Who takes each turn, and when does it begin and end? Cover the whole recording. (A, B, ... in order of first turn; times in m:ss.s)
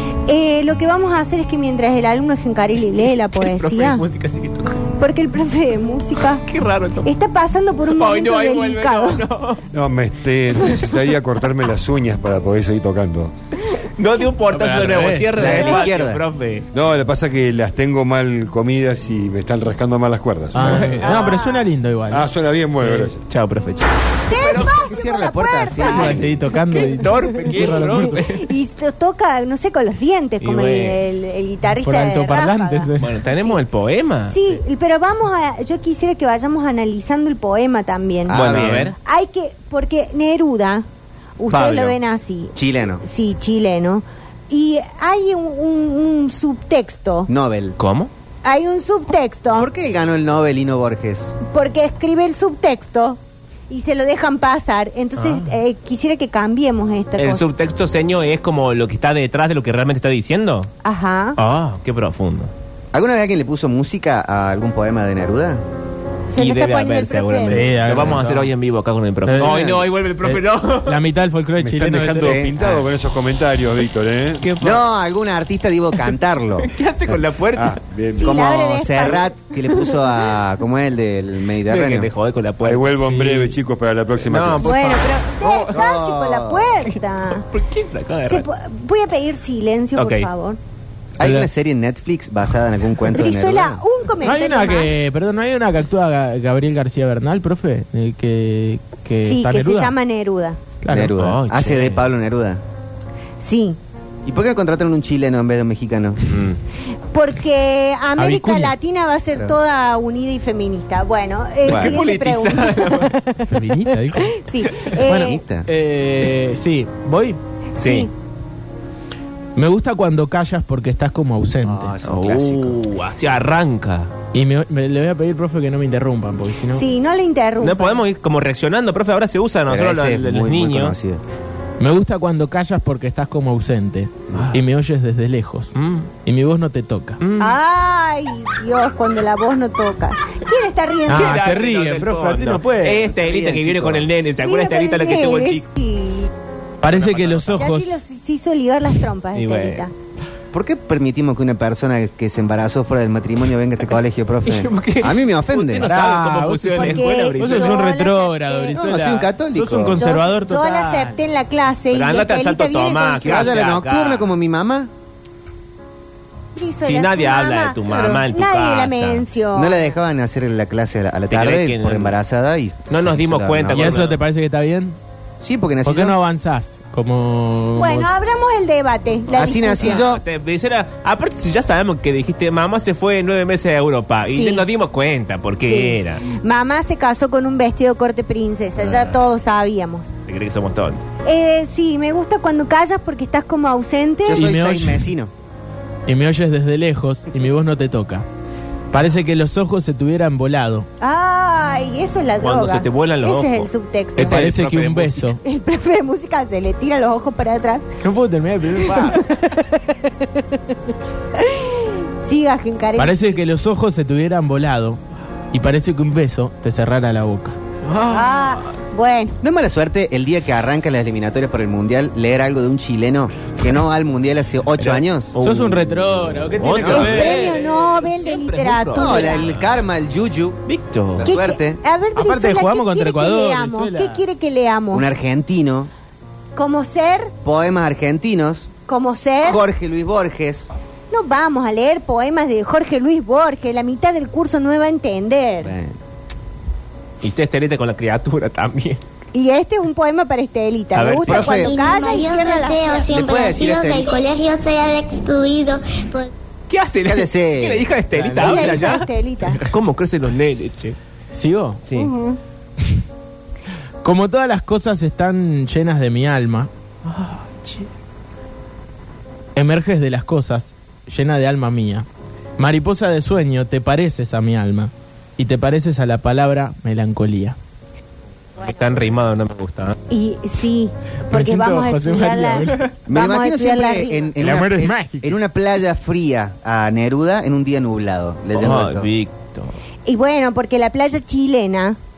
0:00.3-0:04.0 A
0:03.3-0:04.8 B
0:05.0-0:06.4 A
0:06.3-0:07.1 B
0:07.0-0:09.2 A
0:07.9-0:09.6 B
0:09.7-0:13.3 C
0:14.0-0:16.7 B
0:14.5-0:15.6 D
0:15.3-0:16.2 E
0:16.7-0:21.1 C
0:20.5-0:22.3 D
0:20.6-0:21.4 B
0:21.0-0:21.7 A
0:22.1-0:23.2 C
0:22.8-0:24.7 B
0:24.3-0:26.3 A
0:24.5-0:26.3 E
0:25.8-0:28.2 D
0:26.7-0:28.5 B
0:27.4-0:33.6 A
0:30.4-0:31.0 B
0:31.8-0:33.1 D
0:33.0-0:34.6 B
0:34.3-0:40.8 A
0:38.3-0:38.9 E
0:38.3-0:39.0 B
0:41.4-0:47.3 A
0:41.5-0:42.0 E
0:42.5-0:43.0 E
0:47.3-0:47.8 E
0:47.8-0:48.1 B
0:48.4-0:49.7 A
0:49.5-0:51.4 E
0:51.4-0:53.2 A
0:53.7-0:57.5 A
0:55.2-0:55.5 B
0:57.2-1:00.7 B
1:00.8-1:01.4 A
1:01.4-1:02.5 B
1:02.9-1:05.6 E
1:06.3-1:07.8 A
1:06.3-1:11.0 B
1:07.5-1:08.5 D
1:09.2-1:12.4 D
1:09.4-1:09.9 E
1:11.6-1:14.5 C
1:12.2-1:12.9 E
1:14.4-1:14.8 B
1:14.6-1:16.7 E
1:16.6-1:17.8 B
1:17.5-1:18.4 C
1:18.1-1:19.3 A
1:18.2-1:22.1 E
1:21.7-1:23.6 B
1:22.6-1:25.0 C
1:24.2-1:25.8 B
1:24.6-1:27.4 A
1:25.4-1:26.7 E
1:26.8-1:28.4 B
1:28.3-1:30.6 A
1:30.0-1:30.3 B
1:31.2-1:33.8 E
1:31.2-1:31.5 D
1:33.1-1:34.9 A
1:34.2-1:39.9 D
1:39.2-1:40.6 A
1:40.8-1:41.2 D
1:40.9-1:42.6 E
1:41.2-1:42.1 B
1:43.4-1:43.8 A
1:44.2-1:46.5 E
1:46.3-1:46.6 B
1:47.1-1:53.4 A
1:48.2-1:48.7 D
1:51.6-1:53.1 B
1:51.7-1:52.0 E
1:53.4-1:54.3 D
1:54.1-1:55.4 A
1:55.0-1:55.7 E
1:55.1-1:57.4 D
1:57.7-1:58.1 A
1:57.8-1:58.1 B
1:59.6-2:01.9 D
2:01.6-2:02.8 E
2:02.0-2:04.1 B
2:04.3-2:06.8 D
2:06.7-2:08.0 A
2:07.6-2:10.9 B
2:09.7-2:11.2 E
2:11.8-2:15.7 D
2:14.3-2:14.6 B
2:15.7-2:16.1 B
2:16.2-2:17.2 D
2:17.2-2:17.6 B
2:17.4-2:21.4 A
2:21.1-2:23.0 D
2:21.1-2:25.6 B
2:23.0-2:24.1 E
2:24.4-2:26.3 A
2:26.8-2:28.0 D
2:26.8-2:27.7 B
2:27.6-2:29.9 A
2:29.3-2:29.8 B
2:30.5-2:35.9 E
2:34.4-2:38.0 B
2:35.8-2:41.2 D
2:36.7-2:38.8 A
2:38.7-2:40.0 E
2:40.0-2:43.6 A
2:41.9-2:44.3 B
2:43.2-2:44.9 E
2:46.5-2:50.0 A
2:46.8-2:49.3 B
2:47.8-2:48.2 E
2:49.5-2:54.1 E
2:51.3-2:52.1 B
2:52.9-2:54.2 B
2:53.7-2:55.0 D
2:55.4-2:56.2 E
2:55.8-2:58.1 D
2:57.8-3:00.1 A
2:59.3-3:00.2 E
2:59.8-3:06.2 B
3:04.3-3:04.6 A
3:05.6-3:10.1 A
3:08.8-3:09.2 B
3:10.3-3:11.0 B
3:11.2-3:14.5 A
3:14.2-3:15.3 E
3:14.3-3:15.1 D
3:16.1-3:18.2 D
3:18.9-3:20.9 D
3:21.0-3:24.5 A
3:22.4-3:25.3 B
3:24.2-3:25.4 D
3:25.4-3:27.8 A
3:28.0-3:29.2 D
3:28.9-3:30.6 A
3:31.3-3:33.4 A
3:33.0-3:35.0 D
3:35.5-3:37.6 D
3:37.8-3:38.6 B
3:38.1-3:39.4 A
3:39.4-3:45.4 E
3:44.8-3:45.9 B
3:45.4-3:47.9 D
3:46.6-3:49.6 B
3:46.7-3:47.2 E
3:46.9-3:49.5 A
3:48.9-3:50.6 E
3:50.7-3:51.3 B
3:51.2-3:51.8 E
3:51.2-3:55.1 A
3:52.1-3:54.2 D
3:54.9-3:55.9 E
3:56.6-3:57.3 A
3:57.4-3:58.7 E
3:58.9-3:59.6 A
3:59.4-4:00.7 E
4:01.1-4:05.7 A
4:05.6-4:06.0 E
4:07.2-4:09.0 B
4:09.3-4:13.1 A
4:10.9-4:11.5 B
4:11.2-4:11.7 E
4:11.4-4:16.3 F
4:13.1-4:14.2 E
4:16.7-4:19.1 B
4:17.0-4:17.9 E
4:18.1-4:19.7 D
4:18.4-4:19.6 A
4:19.6-4:21.0 B
4:21.3-4:21.8 D
4:21.9-4:22.4 A
4:24.0-4:26.7 D
4:27.0-4:27.9 B
4:29.5-4:32.0 D
4:32.6-4:37.6 D
4:38.6-4:40.0 B
4:40.1-4:44.3 A
4:41.3-4:42.8 D
4:43.1-4:49.1 E
4:44.4-4:45.4 D
4:48.5-4:49.8 B
4:50.0-4:52.0 A